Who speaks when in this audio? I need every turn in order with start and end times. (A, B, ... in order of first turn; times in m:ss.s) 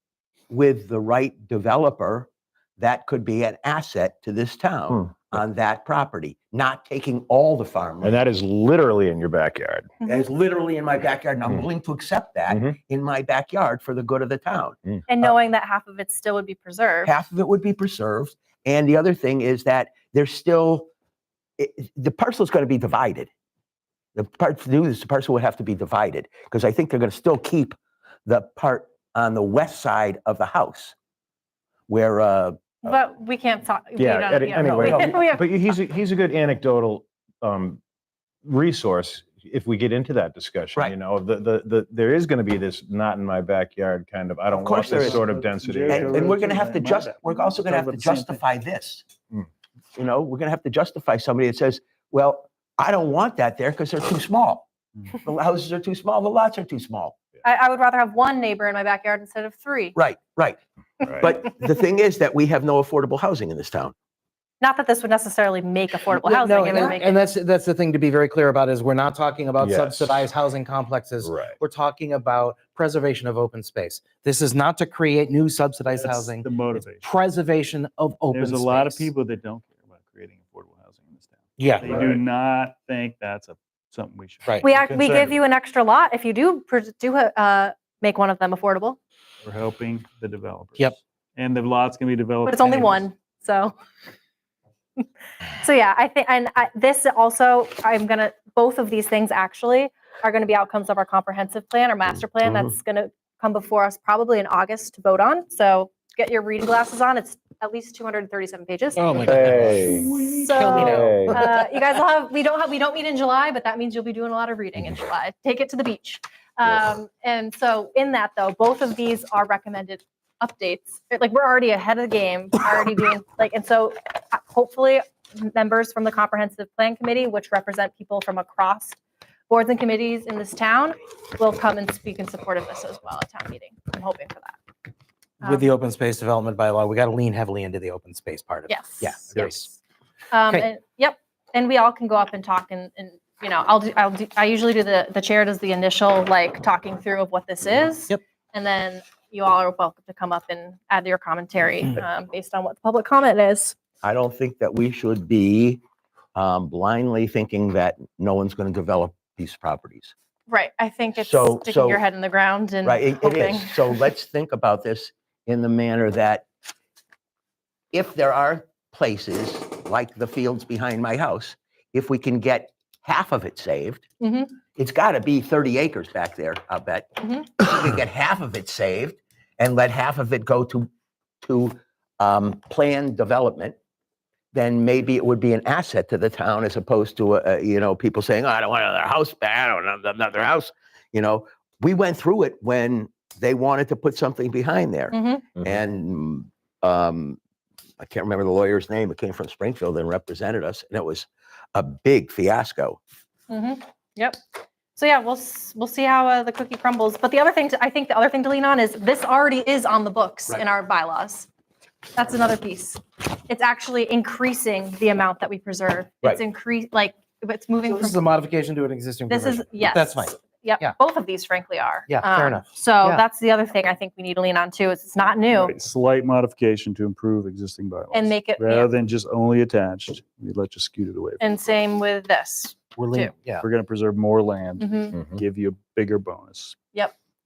0:00.5-0:08.2 A
0:08.0-0:09.9 B
0:10.0-0:15.4 A
0:12.5-0:12.8 B
0:15.1-0:17.2 C
0:17.0-0:20.9 A
0:21.6-0:23.3 A
0:24.2-0:31.0 A
0:31.9-0:32.6 A
0:32.8-0:35.5 C
0:34.0-0:37.8 B
0:38.4-0:46.3 B
0:44.5-0:45.2 A
0:44.8-0:48.4 D
0:45.9-0:49.1 A
0:50.0-0:57.2 A
0:57.4-1:00.0 C
1:00.0-1:00.6 A
1:01.0-1:01.3 B
1:01.2-1:03.9 A
1:04.6-1:07.2 C
1:06.1-1:19.1 E
1:09.6-1:10.2 B
1:11.2-1:11.6 B
1:15.9-1:17.1 D
1:18.3-1:25.4 D
1:21.6-1:22.2 E
1:24.6-1:29.0 C
1:29.4-1:33.0 D
1:32.4-1:33.8 C
1:35.6-2:14.6 C
1:49.0-1:50.0 E
1:49.3-1:50.2 B
1:50.2-1:50.9 D
1:50.5-1:51.4 E
1:50.8-1:51.4 B
2:15.4-2:15.7 C
2:15.4-2:19.7 E
2:18.7-2:19.7 C
2:20.3-2:33.8 C
2:34.0-2:35.8 A
2:36.4-2:40.1 A
2:40.5-2:44.1 C
2:41.2-2:42.0 A
2:42.8-2:46.5 A
2:47.9-2:54.1 A
2:54.2-2:54.5 C
2:54.8-3:00.9 A
2:57.2-2:57.5 C
3:01.4-3:03.8 A
3:04.5-3:17.4 A
3:15.1-3:15.4 C
3:18.0-3:23.0 A
3:23.5-3:24.4 C
3:25.0-3:31.5 C
3:32.2-3:38.2 C
3:37.9-3:41.0 E
3:39.3-3:45.8 C
3:42.1-3:43.2 E
3:45.5-3:51.4 D
3:48.1-3:48.9 C
3:51.4-3:53.3 C
3:53.0-3:53.7 E
3:53.6-3:56.8 D
3:54.8-3:55.2 C